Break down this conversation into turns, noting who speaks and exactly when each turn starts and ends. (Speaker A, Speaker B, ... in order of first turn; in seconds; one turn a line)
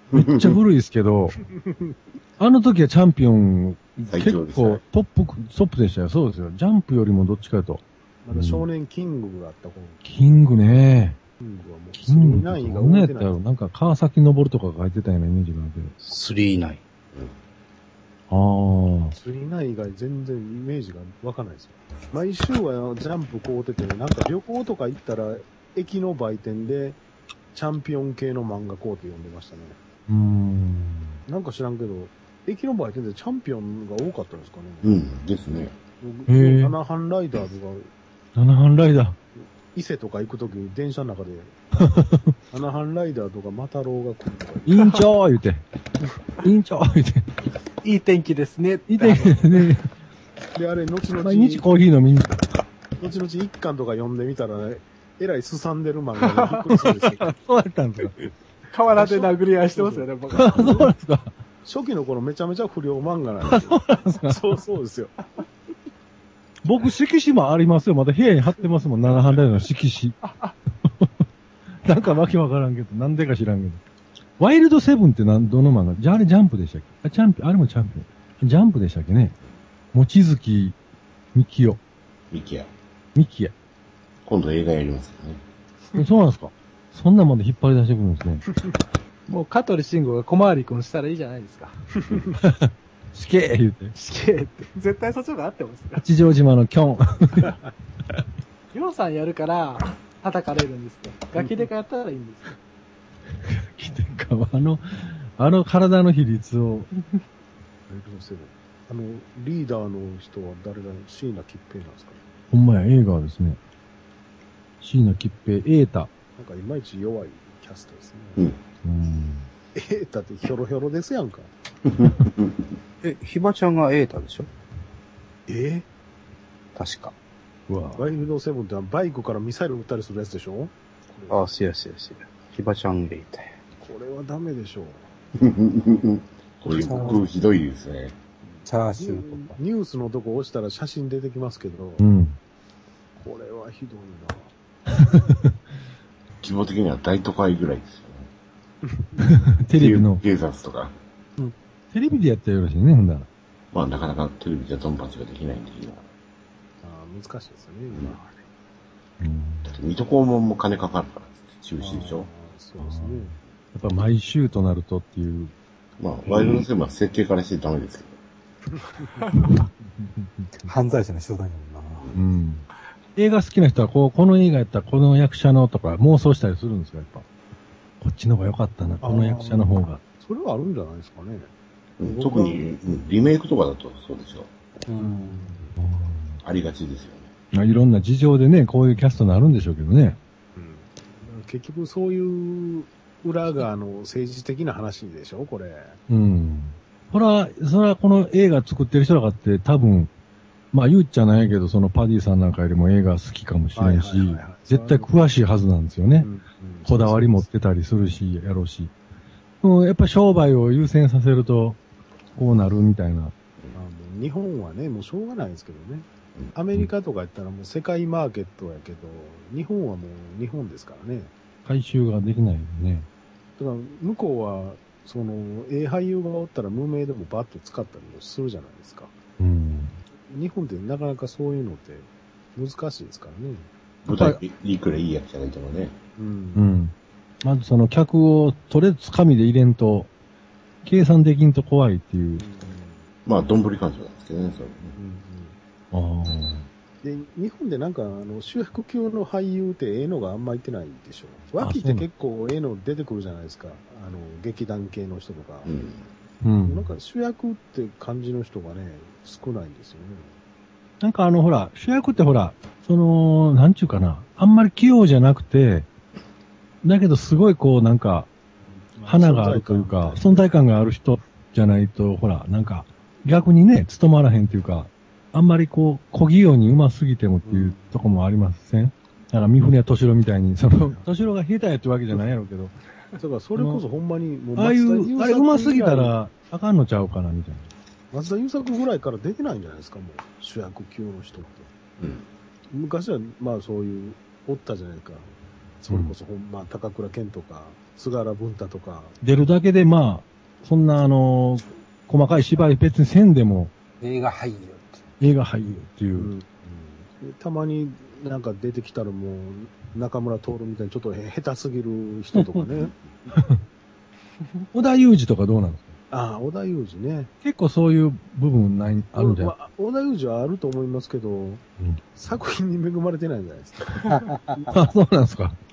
Speaker A: 0.1-0.6
Speaker B: 0.1-1.4
Speaker C: 1.4-1.9
Speaker B: 2.4-8.7
Speaker A: 4.1-4.8
Speaker C: 8.2-10.0
Speaker B: 10.0-11.2
Speaker C: 11.4-13.4
Speaker B: 12.0-15.9
Speaker D: 16.0-16.8
Speaker B: 18.3-19.2
Speaker C: 19.2-27.0
Speaker C: 27.5-29.8
Speaker B: 30.1-31.2
Speaker C: 31.3-34.9
Speaker A: 34.8-35.8
Speaker C: 36.0-37.9
Speaker B: 36.3-36.8
Speaker B: 38.4-39.2
Speaker C: 39.7-41.5
Speaker B: 41.8-42.4
Speaker C: 42.5-44.8
Speaker B: 44.7-45.6
Speaker B: 46.4-47.3
Speaker E: 47.8-49.7
Speaker B: 48.9-49.9
Speaker C: 50.5-51.6
Speaker B: 51.2-52.5
Speaker C: 53.0-57.3
Speaker E: 56.2-56.6
Speaker B: 56.8-58.2
Speaker E: 58.7-60.9
Speaker C: 58.9-60.9
Speaker B: 60.3-61.3
Speaker C: 61.6-65.2
Speaker B: 63.5-64.4
Speaker B: 66.6-70.2
Speaker E: 70.2-70.5
Speaker B: 70.8-71.2
Speaker B: 71.8-73.8
Speaker B: 74.4-79.4
Speaker B: 79.9-80.8
Speaker B: 81.3-81.8
Speaker A: 82.3-82.7
Speaker B: 83.2-83.5
Speaker A: 84.3-85.4
Speaker B: 86.0-88.5
Speaker E: 89.3-91.8
Speaker C: 92.1-92.3
Speaker B: 92.4-94.0
Speaker E: 94.0-96.1
Speaker B: 96.0-97.6
Speaker E: 98.7-102.6
Speaker B: 103.5-106.9
Speaker C: 107.9-112.2
Speaker B: 112.5-113.6
Speaker B: 114.8-116.1
Speaker C: 116.4-118.4
Speaker B: 118.8-119.5
Speaker C: 119.8-121.5
Speaker A: 121.9-122.7
Speaker D: 123.0-124.5
Speaker C: 125.5-125.9
Speaker D: 126.8-127.2
Speaker B: 127.7-128.1
Speaker C: 128.0-131.4
Speaker D: 131.3-133.6
Speaker C: 133.8-135.0
Speaker A: 135.4-138.2
Speaker F: 136.7-137.2
Speaker C: 138.5-142.0
Speaker F: 138.7-139.6
Speaker B: 142.0-142.4
Speaker C: 143.2-144.5
Speaker B: 144.9-145.5
Speaker A: 146.4-148.3
Speaker C: 148.9-149.2
Speaker B: 149.2-150.2
Speaker A: 149.7-151.0
Speaker B: 151.9-153.3
Speaker A: 153.7-156.1
Speaker C: 156.8-158.4
Speaker A: 157.9-158.2
Speaker B: 159.2-159.8
Speaker A: 159.7-162.3
Speaker C: 161.8-163.3
Speaker B: 162.8-165.5
Speaker A: 166.0-168.2
Speaker C: 168.7-169.1
Speaker E: 169.2-169.5
Speaker B: 169.3-170.7
Speaker F: 170.7-172.1
Speaker B: 172.2-177.2
Speaker B: 178.0-180.0
Speaker C: 179.0-181.5
Speaker A: 182.0-184.5
Speaker C: 182.0-182.6
Speaker F: 184.9-185.5
Speaker C: 185.0-185.7
Speaker B: 185.8-186.4
Speaker A: 186.4-187.3
Speaker B: 187.5-190.2
Speaker C: 190.6-196.0
Speaker B: 196.1-200.1
Speaker B: 200.7-206.3
Speaker C: 203.8-205.1
Speaker C: 206.2-207.5
Speaker B: 206.8-208.9
Speaker B: 209.6-211.8
Speaker B: 212.3-213.3
Speaker C: 213.7-221.3
Speaker B: 221.7-223.1
Speaker C: 223.6-229.1
Speaker B: 229.4-230.0
Speaker C: 230.3-233.7
Speaker A: 234.1-236.0
Speaker B: 234.1-234.4
Speaker C: 236.2-236.7
Speaker B: 236.6-240.1
Speaker B: 240.8-242.4
Speaker C: 242.4-243.1
Speaker A: 243.3-245.0
Speaker C: 245.0-245.6
Speaker B: 245.9-246.7
Speaker C: 247.0-255.7
Speaker B: 251.6-252.1
Speaker A: 255.7-256.1
Speaker B: 256.4-256.9
Speaker C: 256.7-260.3
Speaker B: 261.0-265.9
Speaker B: 266.8-268.3
Speaker C: 268.7-270.5
Speaker B: 269.1-282.7
Speaker C: 277.5-278.0
Speaker C: 283.2-286.1
Speaker B: 283.6-283.8
Speaker B: 284.6-287.7
Speaker C: 288.1-291.7
Speaker A: 292.0-292.2
Speaker C: 292.7-299.2
Speaker B: 299.2-303.7
Speaker F: 304.0-305.1
Speaker B: 305.2-306.3
Speaker C: 306.2-312.9
Speaker F: 312.4-312.6
Speaker B: 313.4-313.6
Speaker B: 314.7-316.0
Speaker C: 316.1-317.3
Speaker B: 317.4-319.5
Speaker C: 319.1-321.6
Speaker C: 322.2-324.8
Speaker F: 324.1-324.7
Speaker B: 324.7-325.6